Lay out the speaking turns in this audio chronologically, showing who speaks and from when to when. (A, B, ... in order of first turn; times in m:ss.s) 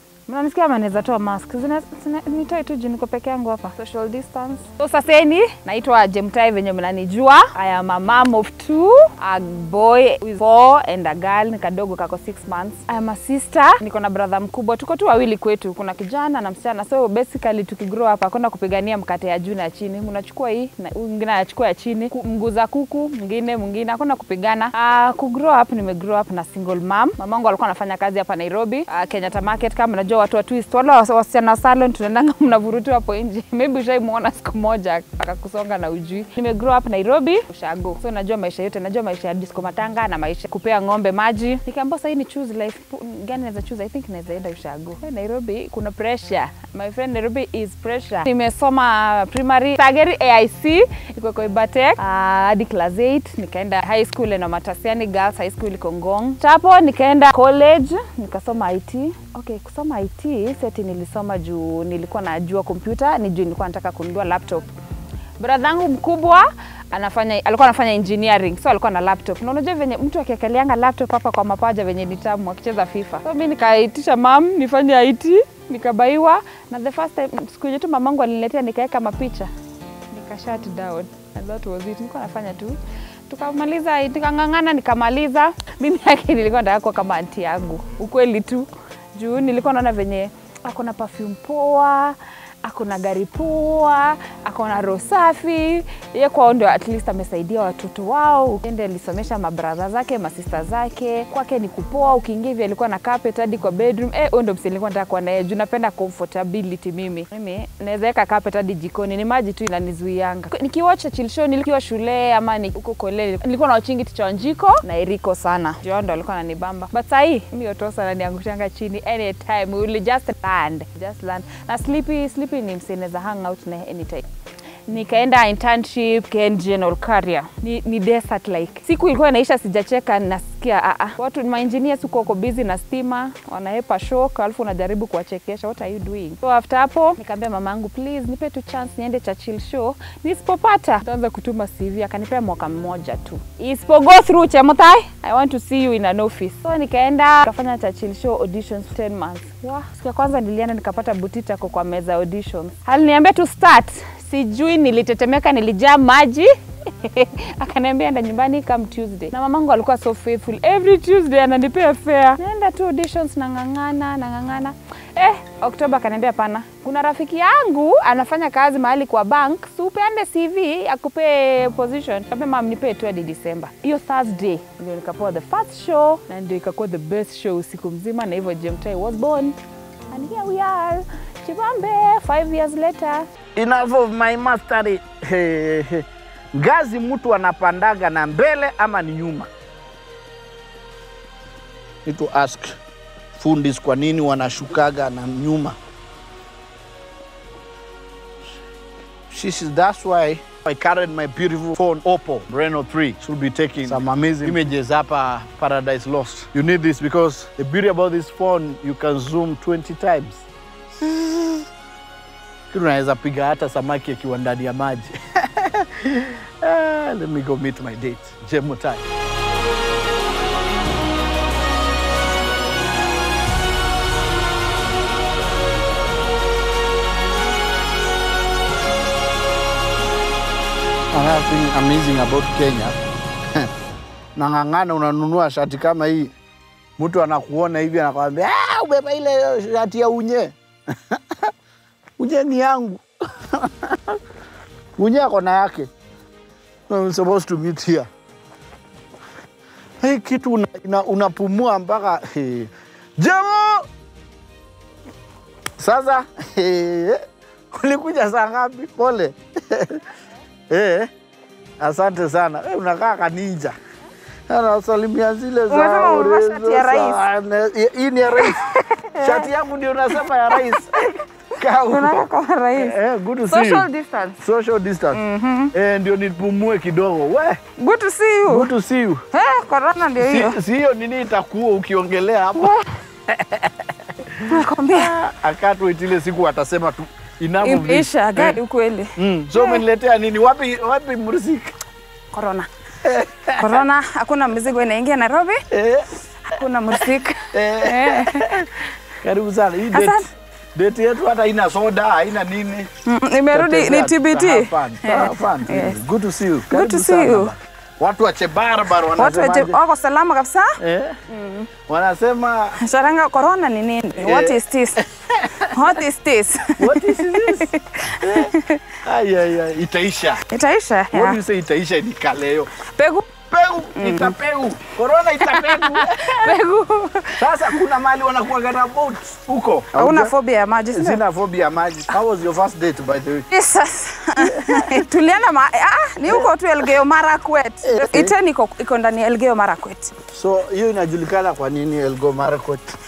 0:00.3-1:04.7 A
1:05.4-1:19.5 A
1:20.1-1:22.8 A
1:23.3-2:04.2 A
2:04.9-2:59.6 A
3:00.1-3:03.3 A
3:03.6-3:09.5 B
3:12.0-3:12.8 B
3:13.4-3:15.8 B
3:19.3-3:30.4 B
3:31.0-3:31.7 B
3:32.7-3:39.0 B
3:51.1-3:53.0 B
3:54.4-3:56.3 B
3:57.0-4:00.5 B
4:01.1-4:01.5 B
4:02.2-4:04.2 B
4:05.0-4:05.9 B
4:06.9-4:08.1 B
4:10.0-4:13.9 B
4:15.8-4:20.0 B
4:20.7-4:21.1 B
4:21.8-4:23.8 B
4:24.5-4:33.9 B
4:25.7-4:27.2 A
4:28.4-4:29.5 A
4:30.5-4:31.2 A
4:31.9-4:33.0 A
4:33.5-4:34.4 A
4:34.4-4:35.2 B
4:35.1-4:35.7 A
4:35.7-4:37.6 B
4:37.8-4:38.7 A
4:38.5-4:39.2 B
4:39.3-4:40.6 A
4:40.2-4:42.7 B
4:42.6-4:42.9 A
4:43.3-4:48.6 B
4:44.4-4:45.1 A
4:47.6-4:49.8 A
4:49.2-4:51.7 B
4:52.3-4:52.7 A
4:53.0-4:53.8 B
4:53.6-4:55.6 A
4:55.7-4:56.1 B
4:56.5-4:58.5 A
4:57.5-5:00.2 B
4:59.9-5:00.3 A
5:00.7-5:02.9 B
5:03.0-5:06.0 A
5:03.5-5:09.8 B
5:06.7-5:07.5 A
5:09.1-5:11.7 A
5:10.8-5:11.2 B
5:11.9-5:12.8 B
5:12.8-5:15.0 A
5:14.2-5:15.9 B
5:15.7-5:18.8 A
5:16.8-5:18.5 B
5:19.0-5:20.4 B
5:20.5-5:21.4 A
5:21.1-5:22.7 B
5:22.9-5:23.3 A
5:23.5-5:26.6 B
5:23.9-5:24.3 A
5:25.4-5:27.4 A
5:27.4-5:30.3 B
5:29.9-5:31.2 A
5:30.9-5:33.4 B
5:33.5-5:40.1 A
5:34.4-5:35.0 B
5:37.8-5:38.3 B
5:40.3-5:42.9 B